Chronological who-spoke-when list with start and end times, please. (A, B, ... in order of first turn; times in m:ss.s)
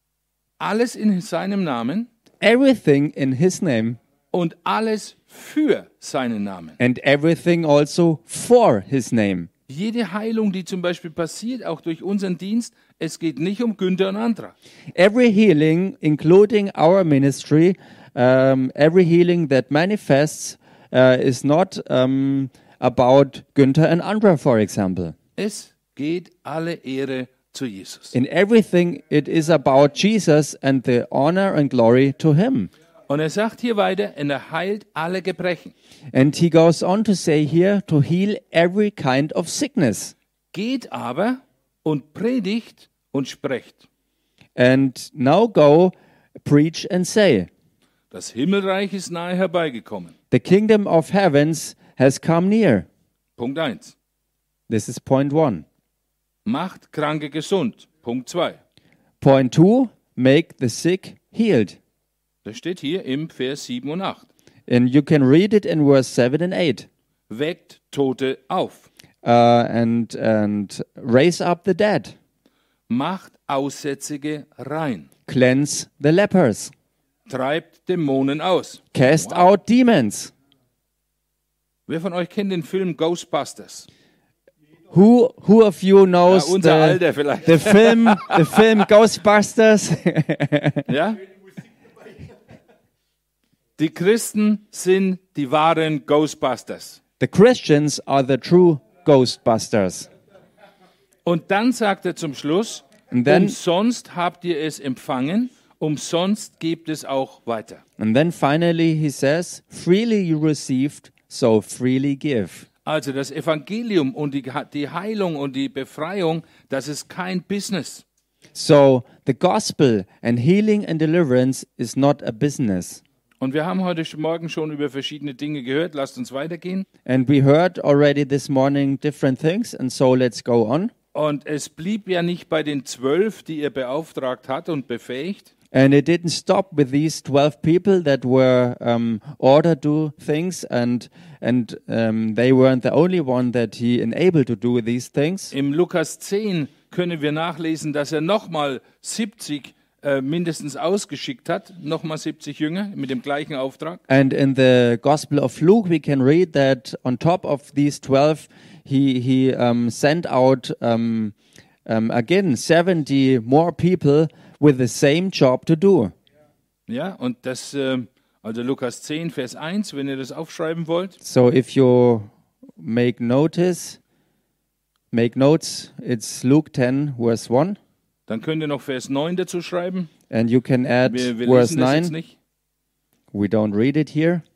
0:00.6-0:02.1 A
0:02.4-0:04.0 B
0:04.3-0:06.8 A
0:06.8-0:09.5 B
0:09.7-0:14.5 A
0:15.0-0:25.2 B
0:25.4-0:28.2 A
0:28.1-0:32.7 B
0:33.1-0:35.7 A
0:36.1-0:40.1 B
0:40.5-0:43.8 A
0:44.6-0:47.5 B
0:48.1-0:50.1 A
0:50.3-0:52.9 B
0:53.4-0:54.0 A
0:54.7-0:55.6 B
0:56.5-0:58.6 A
0:59.2-1:01.8 B
1:02.4-1:04.3 A
1:04.7-1:06.9 B
1:07.3-1:08.9 A
1:09.2-1:12.2 B
1:12.9-1:15.1 A
1:15.3-1:16.7 B
1:17.3-1:19.4 A
1:18.9-1:20.3 B
1:21.9-1:23.9 A
1:24.9-1:30.9 B
1:26.3-1:28.8 A
1:30.9-1:31.2 A
1:33.8-1:37.0 A
1:37.2-1:40.1 B
1:41.2-1:47.8 A
1:43.1-1:43.6 B
1:48.0-1:52.7 B
1:52.9-1:58.0 A
1:58.5-2:03.0 B
2:03.4-2:06.9 A
2:07.1-2:10.9 B
2:11.1-2:15.5 A
2:15.7-2:25.5 B
2:25.5-2:34.0 A
2:34.1-2:46.1 B
2:46.9-2:51.2 A
2:51.2-2:54.0 B
2:55.1-2:57.8 B
2:58.3-3:00.1 A
3:00.3-3:02.1 B
3:01.1-3:02.4 A
3:03.3-3:04.4 B